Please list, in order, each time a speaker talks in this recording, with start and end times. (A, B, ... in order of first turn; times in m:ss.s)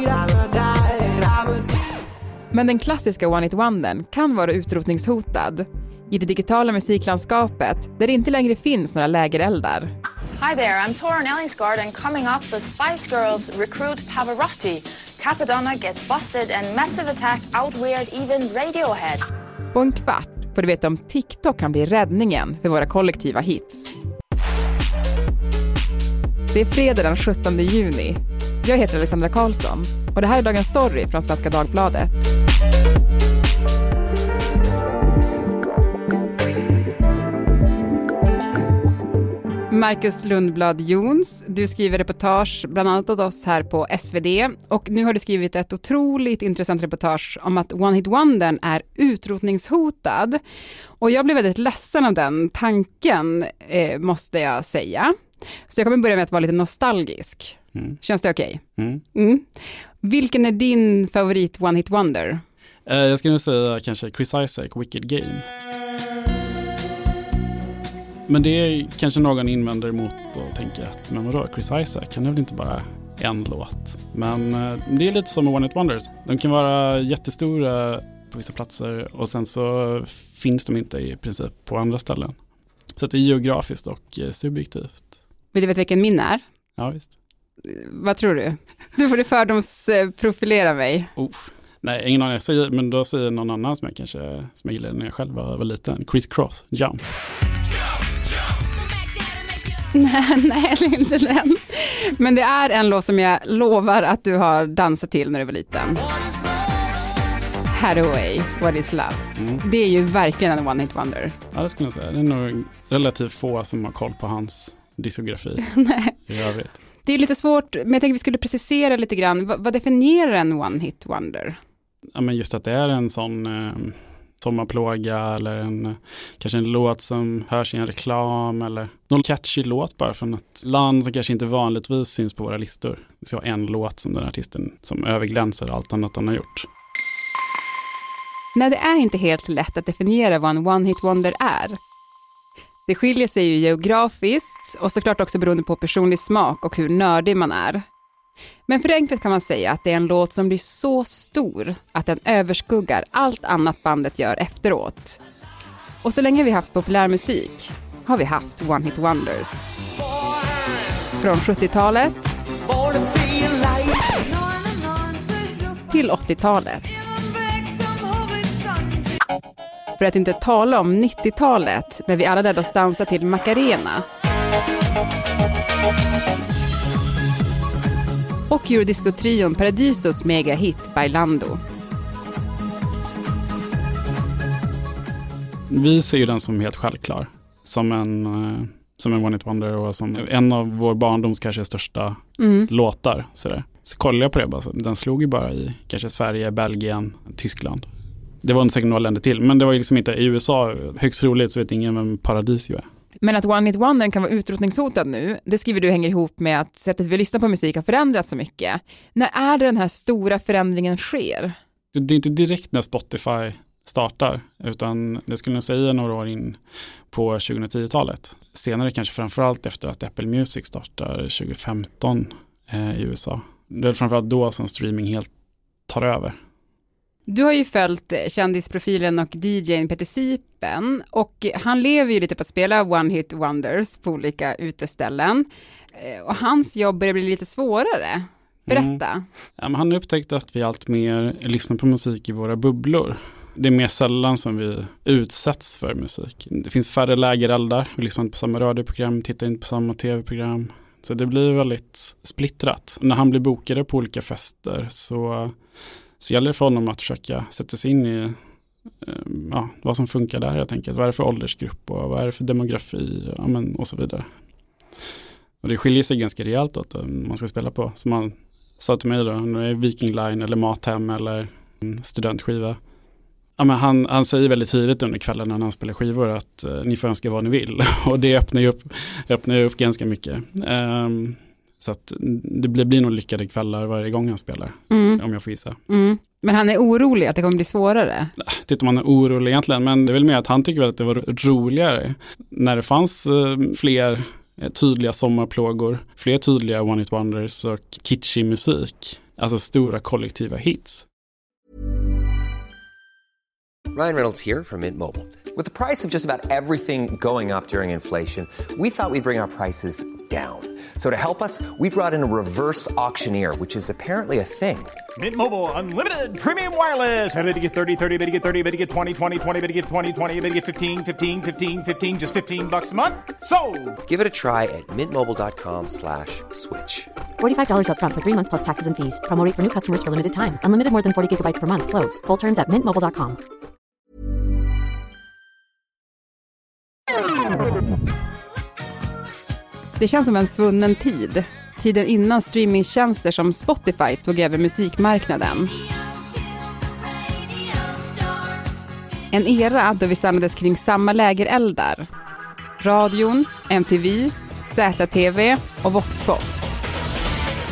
0:02.5-0:09.9 A
0:10.4-0:19.3 B
0:19.7-0:23.9 A
0:26.5-0:32.3 A
0:39.7-0:50.4 A
0:51.0-0:58.6 A
0:58.8-0:59.0 C
0:59.1-1:02.4 A
1:02.9-1:05.4 C
1:08.3-1:22.4 C
1:23.0-1:25.1 C
1:25.5-1:26.4 A
1:26.8-1:27.1 C
1:27.6-1:31.1 A
1:31.2-1:37.0 C
1:39.9-1:46.1 A
1:47.7-1:51.4 A
1:49.4-1:49.6 C
1:51.5-1:55.7 C
1:55.6-1:56.2 A
1:56.3-1:56.8 C
1:57.0-2:01.6 A
2:02.2-2:16.7 C
2:18.6-2:21.8 A
2:22.9-2:27.8 A
2:28.7-2:35.2 A
2:36.0-2:39.7 A
2:41.2-2:42.4 A
2:45.7-2:47.1 A
2:50.0-2:54.0 A
2:58.5-3:01.6 A
3:05.7-3:17.9 C
3:12.4-3:12.7 A
3:18.4-3:22.9 C
3:23.2-3:31.5 A
3:31.9-3:36.6 C
3:37.1-3:45.3 C
3:45.9-3:46.4 C
3:47.3-3:59.3 A
3:58.7-3:59.0 C
3:59.6-4:15.5 C
4:16.2-4:18.4 C
4:19.0-4:24.3 C
4:25.6-4:32.8 C
4:33.6-4:45.8 C
4:44.9-4:45.2 A
4:45.9-4:48.3 A
4:48.4-5:01.1 C
5:03.9-5:14.9 D
5:15.2-5:24.0 E
5:24.1-5:27.1 D
5:27.4-5:33.4 F
5:40.0-5:45.8 A
5:49.3-5:52.1 A
5:52.8-5:56.5 A